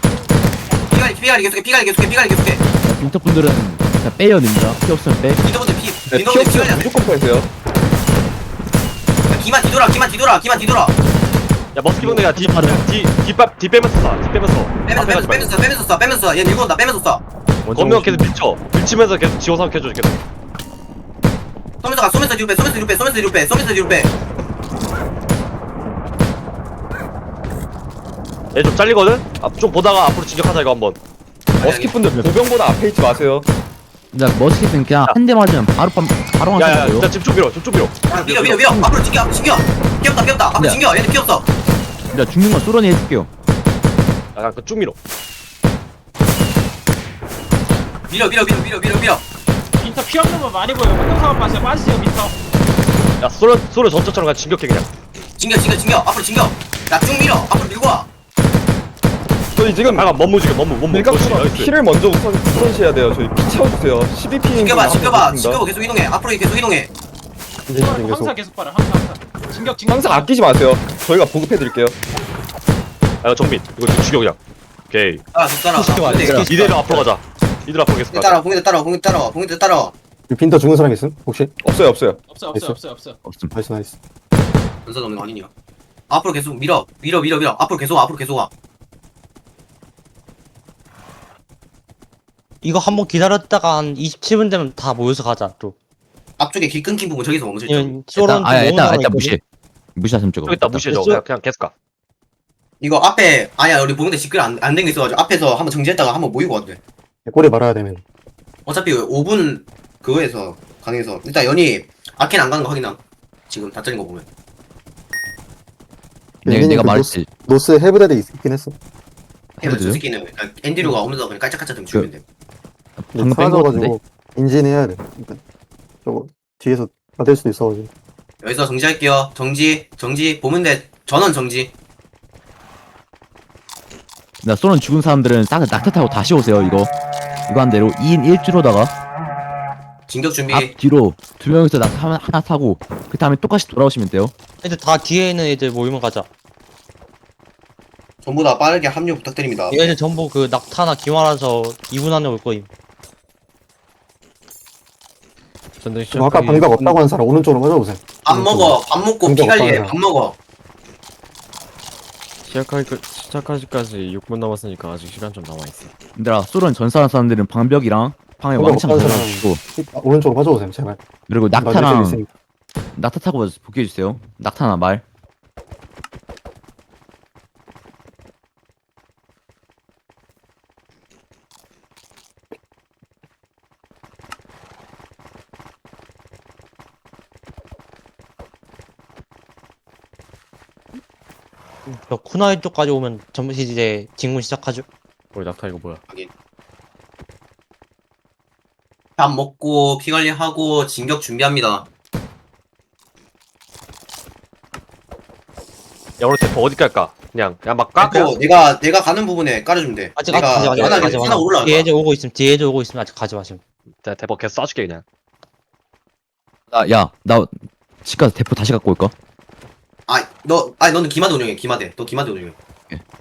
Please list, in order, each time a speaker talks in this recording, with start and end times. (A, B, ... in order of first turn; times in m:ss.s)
0:00.9-0:02.6 A
0:02.8-0:05.4 B
0:05.4-0:06.9 A
0:06.1-0:07.5 C
0:09.3-0:10.9 A
0:11.7-0:15.5 D
0:12.0-0:12.8 B
0:14.8-0:17.2 A
0:17.6-0:18.3 E
0:17.7-0:20.2 D
0:21.8-0:24.1 A
0:28.5-0:31.0 D
0:31.6-0:31.9 A
0:31.6-0:33.4 C
0:32.0-0:32.3 B
0:34.1-0:37.1 B
0:36.6-0:38.6 D
0:38.1-0:41.5 A
0:42.1-0:43.3 B
0:44.3-0:44.9 D
0:48.1-0:49.2 A
0:49.8-0:52.4 F
0:53.2-0:54.9 D
0:55.4-0:58.1 A
0:59.5-1:00.1 C
0:59.9-1:01.7 D
1:00.9-1:05.6 C
1:04.5-1:06.9 A
1:07.7-1:08.3 G
1:07.7-1:10.3 F
1:09.9-1:12.0 C
1:13.2-1:14.4 D
1:14.9-1:15.2 D
1:15.3-1:16.4 A
1:15.7-1:17.1 H
1:16.1-1:16.5 B
1:16.4-1:18.4 D
1:18.1-1:19.9 A
1:20.3-1:21.5 G
1:21.6-1:22.2 C
1:22.2-1:23.2 F
1:23.2-1:23.5 B
1:23.5-1:23.9 G
1:24.8-1:25.5 A
1:26.1-1:28.5 A
1:32.6-1:35.8 H
1:36.4-1:37.9 A
1:37.7-1:39.3 H
1:38.2-1:39.4 B
1:40.0-1:40.9 B
1:40.5-1:41.7 D
1:40.9-1:41.2 H
1:42.8-1:46.8 A
1:47.2-1:48.0 G
1:48.6-1:54.2 A
1:56.4-1:57.3 B
1:56.4-1:58.8 G
1:59.6-2:00.0 B
1:59.6-2:02.2 A
2:03.0-2:03.9 B
2:03.1-2:05.4 G
2:06.0-2:07.9 G
2:08.4-2:11.7 A
2:14.4-2:16.9 B
2:17.5-2:18.9 B
2:20.1-2:20.7 A
2:20.5-2:24.3 B
2:24.6-2:26.3 H
2:28.2-2:29.9 A
2:29.7-2:32.7 H
2:35.8-2:37.0 E
2:36.1-2:40.0 G
2:38.2-2:40.4 A
2:42.4-2:45.9 E
2:46.2-2:49.6 B
2:48.6-2:51.0 G
2:51.3-2:52.2 B
2:51.5-2:52.3 G
2:53.0-2:55.0 B
3:11.9-3:14.8 H
3:15.3-3:16.0 E
3:19.2-3:21.9 A
3:26.2-3:28.3 D
3:28.0-3:31.9 A
3:30.2-3:33.6 H
3:30.8-3:31.2 E
3:34.0-3:35.0 D
3:36.7-3:37.5 B
3:38.0-3:39.1 B
3:40.1-3:42.6 A